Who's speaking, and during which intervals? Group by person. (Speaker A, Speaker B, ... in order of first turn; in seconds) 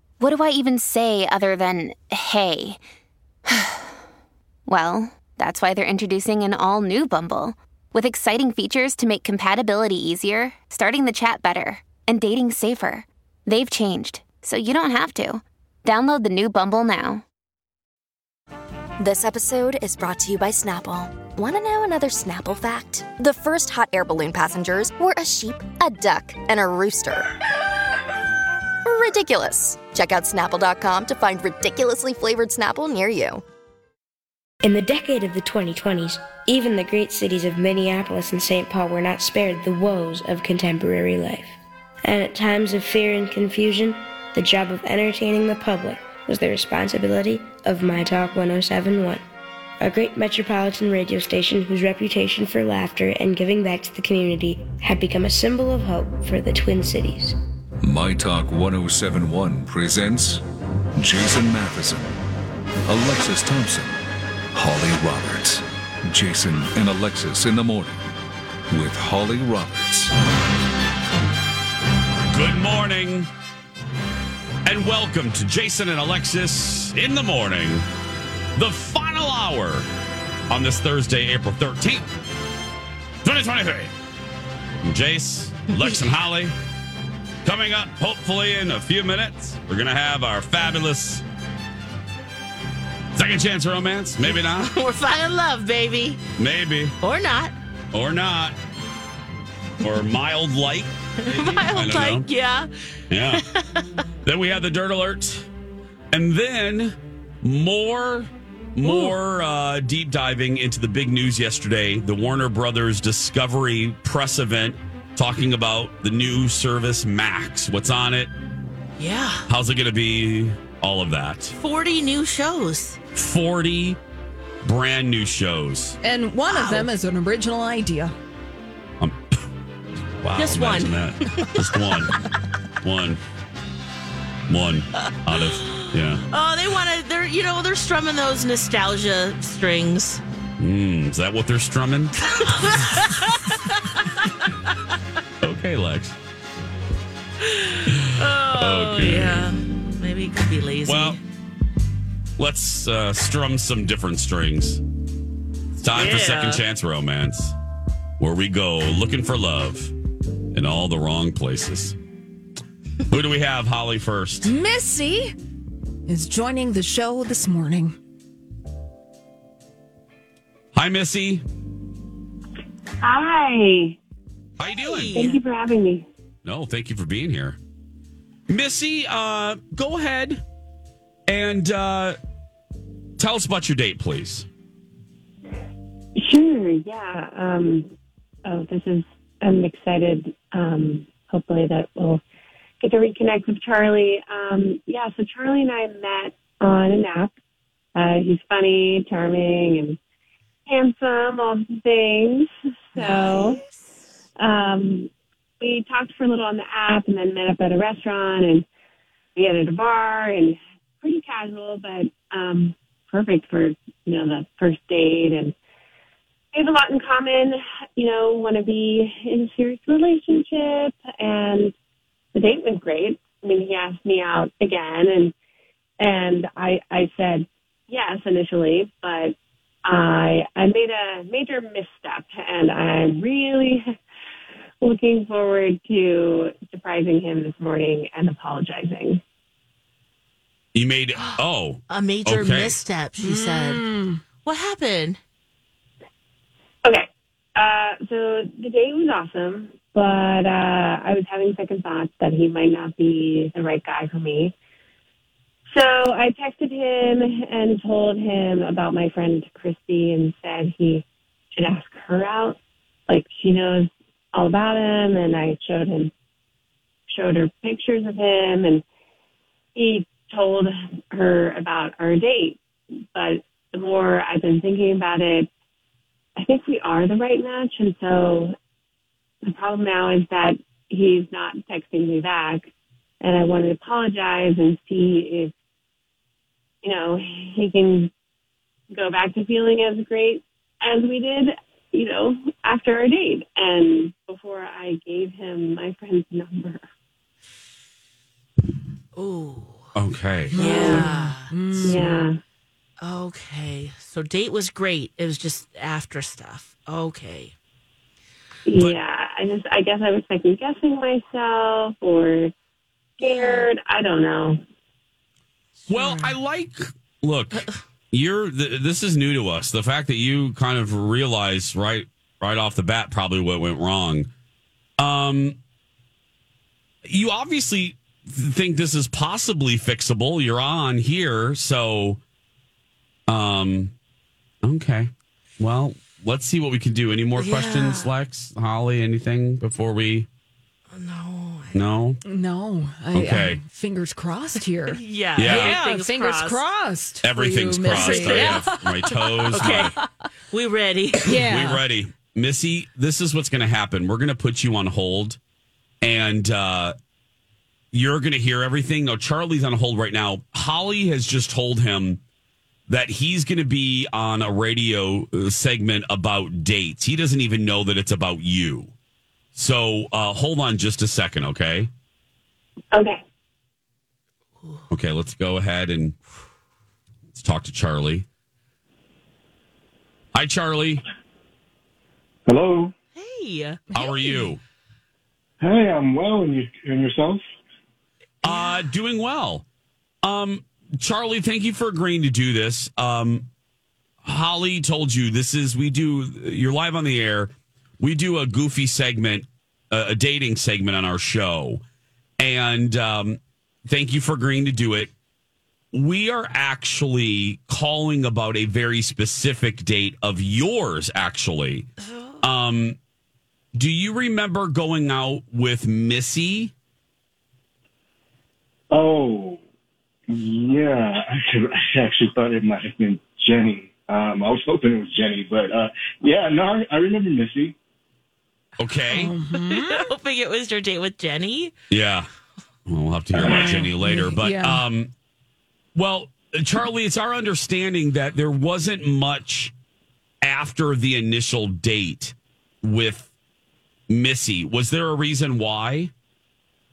Speaker A: 0.2-2.8, 3.5-3.9, 4.7-17.2
Speaker B: 19.1-20.9, 21.5-23.4, 23.9-24.9, 29.6-30.5
Speaker C: 34.6-49.2, 49.8-57.4
Speaker D: 57.8-60.4, 61.0-62.2, 62.9-64.0, 64.5-68.0, 68.7-70.1
Speaker E: 72.3-73.3, 74.7-77.9, 78.6-79.8, 80.5-82.1, 83.2-83.9, 84.8-86.5, 87.4-91.2, 93.2-94.7, 96.4-97.0, 97.9-98.6, 99.8-102.3, 103.1-103.4, 104.2-105.5, 106.1-118.3, 119.5-121.5, 123.1-124.0, 124.6-126.0, 129.0-129.4, 130.2-132.2, 132.8-133.2, 134.5-136.2, 140.6-142.7, 145.4-146.2, 147.9-149.5, 150.9-151.2, 152.4-154.8, 155.8-157.6, 158.2-159.9, 160.5-162.0, 163.1-164.5, 170.7-171.4, 174.6-175.2, 176.4-177.6, 178.5-180.4, 181.3-182.2, 183.2-184.5, 240.7-242.8, 299.9-301.0, 315.9-324.3, 325.0-325.6, 327.1-332.2, 333.3-333.9, 334.6-340.3, 341.7-342.2, 343.1-343.6, 345.4-345.8, 347.2-349.9, 351.3-355.4, 356.0-356.9, 357.9-362.2, 362.9-368.9, 369.6-371.9, 374.9-376.2, 377.3-378.3, 380.3-381.0, 383.9-384.6, 388.4-389.6, 390.2-393.5, 394.2-401.8, 402.4-405.1, 405.9-411.9, 412.4-413.0, 413.8-416.7, 428.8-429.3, 431.9-432.3, 432.9-435.1, 435.9-439.7, 440.4-443.3, 444.1-446.1
Speaker F: 85.7-86.0, 94.2-96.2, 97.0-97.5, 101.2-102.7, 103.3-103.8, 108.8-109.2, 119.0-119.5, 121.6-123.0, 126.5-126.9, 130.4-132.2, 135.0-140.2, 142.3-144.5, 147.4-151.2, 155.9-156.6, 174.6-175.4, 203.0-203.8, 241.2-243.9, 244.4-245.2, 299.2-299.9, 300.6-301.5, 303.0-307.5, 313.2-313.7, 337.4-338.1, 340.9-341.8, 344.9-346.6, 347.9-348.6, 349.5-349.9, 350.5-351.4, 383.2-383.8, 412.1-412.4, 429.5-431.7
Speaker G: 126.0-128.1, 164.4-165.3, 166.1-168.0, 243.2-244.2, 300.5-302.2, 342.3-350.1, 351.2-351.8, 383.9-384.5, 429.1-430.1, 433.4-434.8
Speaker H: 173.0-174.0, 175.1-176.1, 186.2-187.9, 188.5-192.2, 192.8-197.3, 198.0-200.0, 200.7-203.6, 204.4-208.7, 209.3-215.6, 216.5-221.7, 222.3-225.3, 226.0-234.0, 234.8-239.2, 246.8-254.5, 255.7-262.6, 263.1-266.1, 267.1-268.8, 269.8-272.6, 273.1-275.5, 276.4-278.6, 279.4-282.7, 283.2-285.5, 286.8-288.1, 288.9-296.8, 300.7-301.1, 301.9-302.4, 308.7-312.5, 313.2-314.6, 372.9-373.2
Speaker I: 382.5-382.9, 385.6-387.4, 418.9-419.6, 420.3-427.8